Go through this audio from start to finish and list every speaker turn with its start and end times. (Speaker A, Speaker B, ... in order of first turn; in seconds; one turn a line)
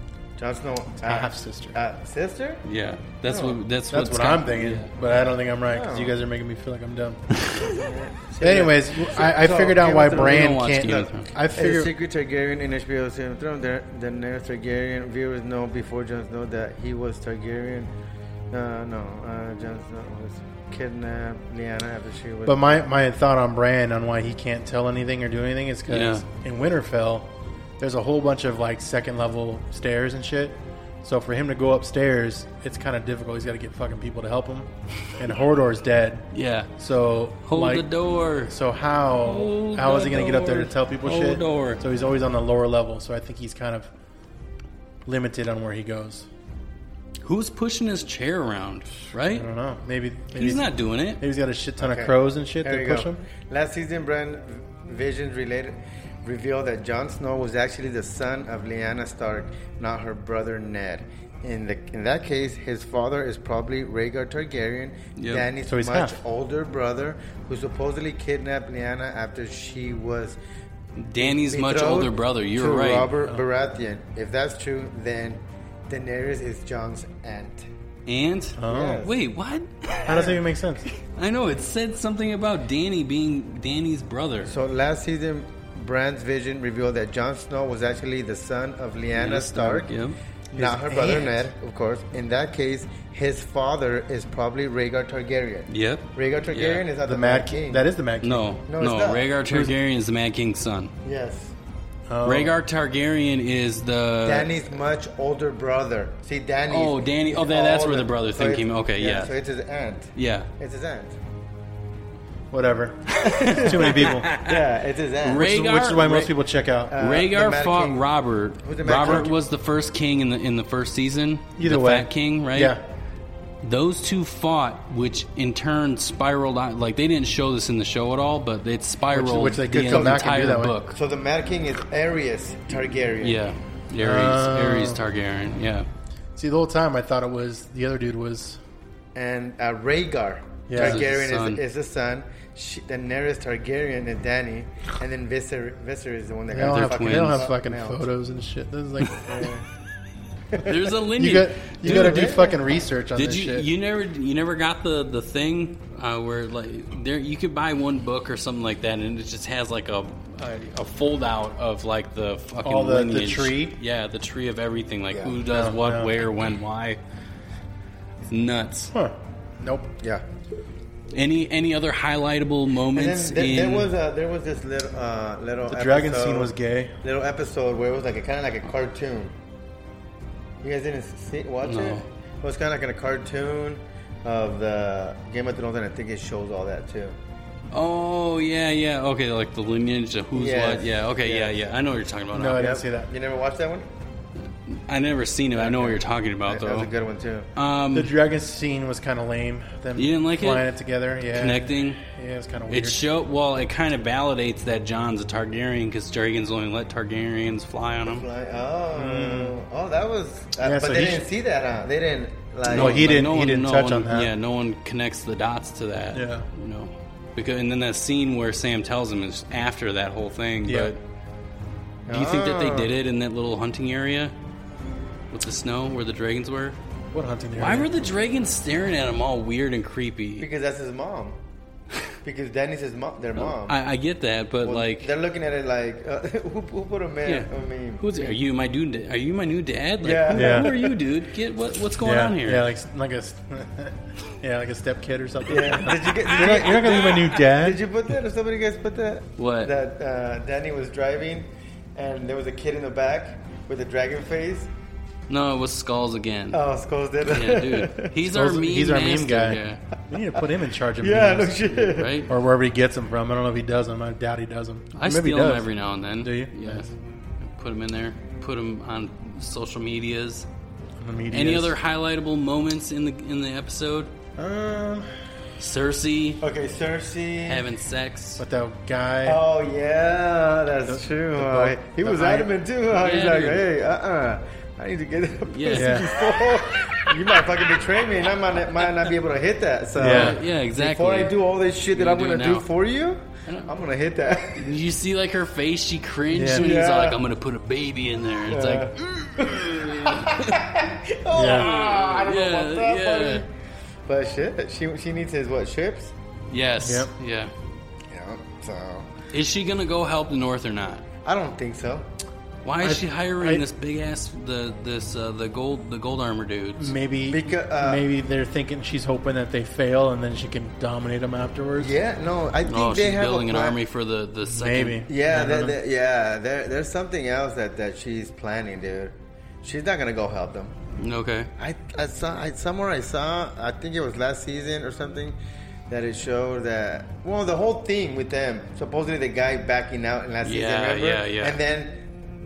Speaker A: 0.4-2.6
Speaker B: 1.0-1.8
Speaker C: 2.6-4.9
Speaker A: 3.2-3.6
Speaker B: 3.9-7.2
Speaker A: 5.7-6.2
Speaker C: 7.5-7.7
Speaker A: 7.7-17.9
Speaker B: 8.4-11.9
Speaker C: 10.1-11.3
Speaker A: 18.5-22.7
Speaker B: 22.4-37.9
Speaker C: 25.9-26.2
Speaker C: 36.3-36.7
Speaker C: 37.5-38.5
Speaker B: 38.5-43.9
Speaker C: 39.2-41.8
Speaker B: 45.0-46.3
Speaker C: 47.2-49.5
Speaker B: 49.3-53.2
Speaker C: 50.3-51.2
Speaker A: 51.8-70.4
Speaker C: 65.2-65.5
Speaker B: 65.7-66.2
Speaker C: 71.0-73.1
Speaker A: 71.2-77.7
Speaker C: 78.0-80.4
Speaker B: 78.6-79.0
Speaker A: 78.7-79.2
Speaker B: 80.0-80.9
Speaker C: 81.0-84.5
Speaker A: 84.4-89.9
Speaker C: 89.1-90.2
Speaker B: 90.5-91.5
Speaker A: 90.5-97.8
Speaker C: 95.7-96.8
Speaker B: 97.0-98.6
Speaker C: 98.2-100.9
Speaker A: 98.7-99.3
Speaker A: 101.0-101.5
Speaker B: 102.1-102.5
Speaker C: 102.2-104.5
Speaker A: 104.2-111.2
Speaker C: 106.7-109.3
Speaker C: 110.2-110.5
Speaker B: 112.5-114.3
Speaker C: 113.1-114.7
Speaker A: 113.3-115.5
Speaker C: 115.2-116.3
Speaker B: 115.4-117.0
Speaker A: 116.9-118.0
Speaker C: 117.0-122.8
Speaker A: 118.6-119.3
Speaker B: 121.6-122.8
Speaker C: 123.6-131.0
Speaker B: 129.1-130.7
Speaker A: 130.9-133.4
Speaker C: 133.2-135.9
Speaker B: 134.0-135.0
Speaker B: 136.3-138.6
Speaker A: 139.1-148.0
Speaker B: 140.7-141.0
Speaker C: 140.7-141.6
Speaker B: 146.5-149.7
Speaker C: 146.6-147.5
Speaker C: 150.6-152.4
Speaker B: 151.2-153.7
Speaker A: 151.8-152.6
Speaker C: 153.2-167.0
Speaker B: 162.6-163.8
Speaker A: 165.1-165.4
Speaker B: 165.5-166.1
Speaker C: 168.3-168.9
Speaker B: 168.9-169.9
Speaker C: 171.1-173.9
Speaker A: 172.9-179.3
Speaker B: 175.7-176.9
Speaker A: 180.6-187.2
Speaker C: 181.6-182.1
Speaker C: 187.7-192.7
Speaker A: 190.3-191.7
Speaker B: 192.3-193.1
Speaker A: 192.5-193.9
Speaker C: 194.7-196.9
Speaker A: 195.5-197.5
Speaker C: 197.6-198.1
Speaker B: 197.9-203.0
Speaker C: 199.9-200.7
Speaker C: 201.3-202.0
Speaker C: 202.7-208.2
Speaker A: 208.0-213.1
Speaker B: 208.9-209.5
Speaker B: 210.6-211.2
Speaker C: 212.7-221.0
Speaker B: 212.7-214.3
Speaker B: 216.1-216.5
Speaker B: 220.7-220.9
Speaker A: 222.1-222.9
Speaker C: 222.1-224.3
Speaker C: 225.3-226.8
Speaker B: 227.1-227.9
Speaker C: 227.6-230.5
Speaker A: 230.4-231.4
Speaker A: 232.2-233.8
Speaker C: 233.4-235.1
Speaker A: 234.6-238.4
Speaker C: 237.2-242.7
Speaker A: 240.0-240.9
Speaker B: 240.3-240.7
Speaker B: 242.0-247.8
Speaker A: 245.4-254.7
Speaker C: 246.3-247.3
Speaker C: 249.4-249.7
Speaker C: 255.3-256.6
Speaker A: 256.5-258.1
Speaker C: 257.2-259.8
Speaker B: 258.2-261.6
Speaker A: 261.0-262.2
Speaker C: 261.8-262.3
Speaker B: 262.3-265.7
Speaker C: 264.9-266.9
Speaker B: 266.2-266.9
Speaker C: 267.4-270.5
Speaker B: 271.0-271.7
Speaker C: 271.3-274.1
Speaker B: 274.4-275.1
Speaker C: 275.6-276.4
Speaker A: 276.4-277.7
Speaker C: 277.4-278.4
Speaker B: 278.4-279.4
Speaker A: 279.2-294.7
Speaker B: 280.9-282.5
Speaker C: 282.9-283.6
Speaker C: 285.5-286.2
Speaker B: 285.7-286.1
Speaker B: 290.0-290.4
Speaker C: 290.0-291.3
Speaker C: 291.9-292.7
Speaker C: 294.6-300.6
Speaker B: 296.3-296.6
Speaker A: 296.6-297.2
Speaker A: 298.5-303.5
Speaker B: 301.3-301.7
Speaker C: 301.4-303.4
Speaker A: 304.1-306.1
Speaker C: 306.5-307.5
Speaker B: 306.8-307.1
Speaker A: 308.1-309.1
Speaker C: 309.3-311.0
Speaker A: 311.2-312.1
Speaker C: 312.6-316.9
Speaker B: 312.8-313.6
Speaker B: 316.8-321.9
Speaker A: 317.3-318.1
Speaker A: 321.8-323.8
Speaker C: 322.6-325.0
Speaker B: 324.4-325.8
Speaker A: 325.1-330.7
Speaker C: 331.0-331.5
Speaker A: 331.6-335.4
Speaker A: 335.9-342.0
Speaker C: 340.4-341.6